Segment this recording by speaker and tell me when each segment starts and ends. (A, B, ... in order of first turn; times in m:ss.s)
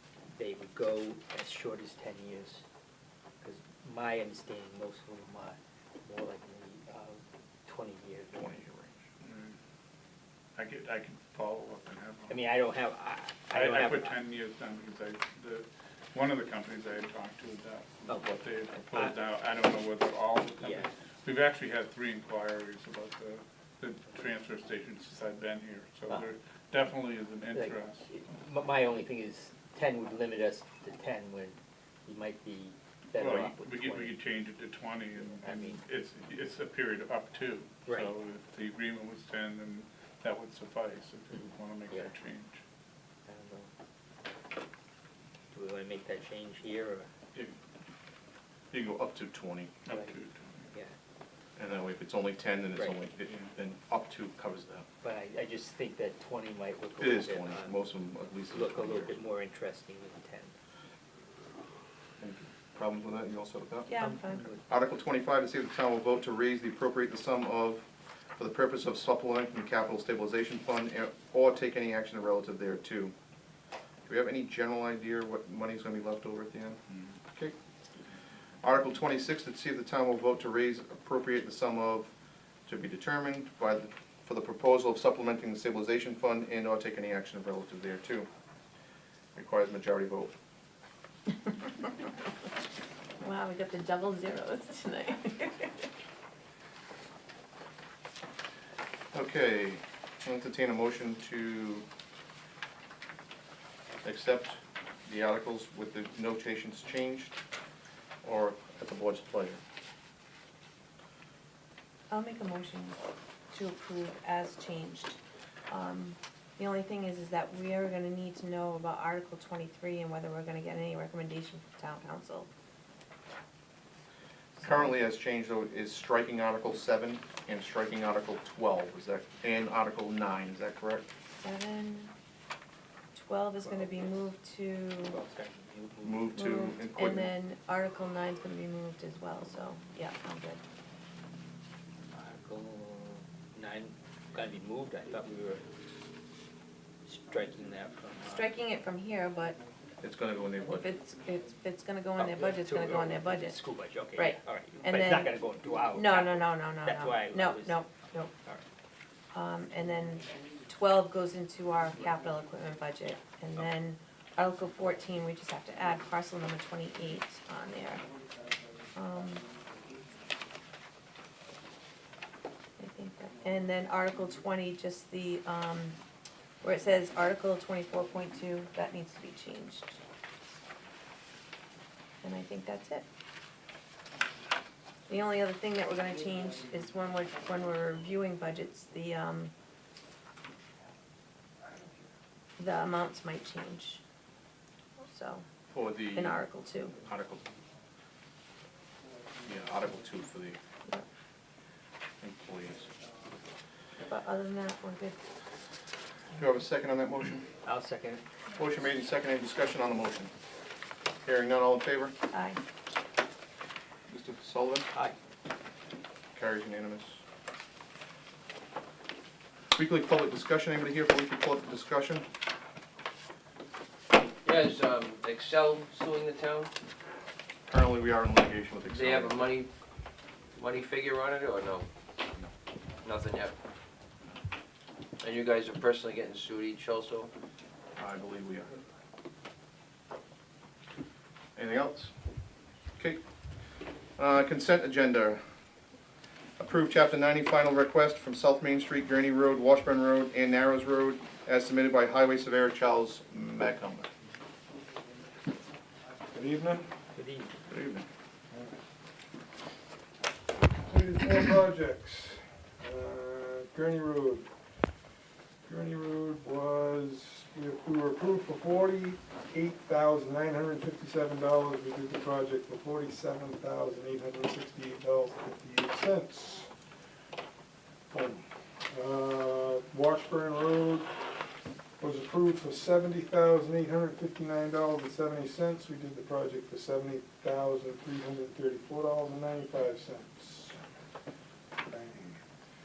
0:00.3-0:02.6 A
0:03.4-0:08.6 A
0:08.3-0:09.0 B
0:09.2-0:09.6 C
0:10.6-0:12.4 C
0:12.3-0:14.2 A
0:13.5-0:28.1 C
0:18.1-0:19.2 A
0:20.6-0:20.9 A
0:27.5-0:34.2 A
0:33.1-0:42.6 C
0:35.4-0:35.8 A
0:37.8-0:38.1 A
0:41.3-0:42.1 A
0:43.3-0:43.7 A
0:45.5-0:47.1 A
0:48.7-0:49.7 B
0:49.8-0:50.6 C
0:51.6-0:54.8 B
0:55.0-0:57.8 A
0:57.0-0:59.2 B
0:58.5-1:00.5 A
1:02.2-1:03.9 B
1:03.9-1:04.5 D
1:04.0-1:04.6 A
1:04.7-1:07.8 B
1:08.4-1:13.1 B
1:14.1-1:17.5 B
1:18.6-1:22.1 B
1:22.6-1:28.3 B
1:29.3-1:30.3 B
1:33.2-1:35.9 D
1:39.1-1:41.8 B
1:44.0-1:47.4 B
1:48.2-1:49.6 B
1:52.1-2:02.5 D
2:04.6-2:11.1 B
2:11.4-2:12.1 D
2:13.1-2:15.2 D
2:13.6-2:14.3 A
2:15.1-2:16.3 A
2:16.0-2:17.3 B
2:16.3-2:20.6 D
2:22.1-2:25.6 A
2:27.0-2:28.5 A
2:28.2-2:29.6 D
2:30.0-2:30.9 B
2:30.7-2:35.4 D
2:32.2-2:37.8 A
2:35.9-2:38.3 D
2:39.3-2:48.1 D
2:48.9-2:49.5 D
2:52.8-2:56.0 D
2:56.6-3:00.0 D
3:02.2-3:03.1 D
3:05.1-3:09.5 D
3:12.6-3:14.0 D
3:15.0-3:15.5 D
3:15.7-3:16.4 B
3:16.0-3:17.1 D
3:17.0-3:17.4 B
3:19.4-3:20.6 B
3:22.2-3:22.9 B
3:24.0-3:25.2 D
3:26.3-3:27.4 B
3:27.6-3:28.2 A
3:28.6-3:30.3 B
3:31.2-3:32.1 B
3:32.3-3:32.6 D
3:34.1-3:34.9 B
3:36.3-3:37.2 B
3:39.7-3:42.2 B
3:44.4-3:46.7 E
3:47.7-3:49.6 B
3:48.9-3:49.7 E
3:50.6-3:51.8 E
3:53.0-3:53.5 E
3:55.2-3:57.3 E
3:58.0-3:58.8 B
4:01.6-4:02.1 B
4:04.2-4:05.4 B
4:06.6-4:14.1 B
4:16.3-4:16.8 F
4:17.1-4:17.5 A
4:17.7-4:18.0 B
4:20.6-4:24.5 F
4:25.6-4:36.7 F
4:38.1-4:41.1 F
4:42.0-4:50.8 F
4:51.9-4:52.4 F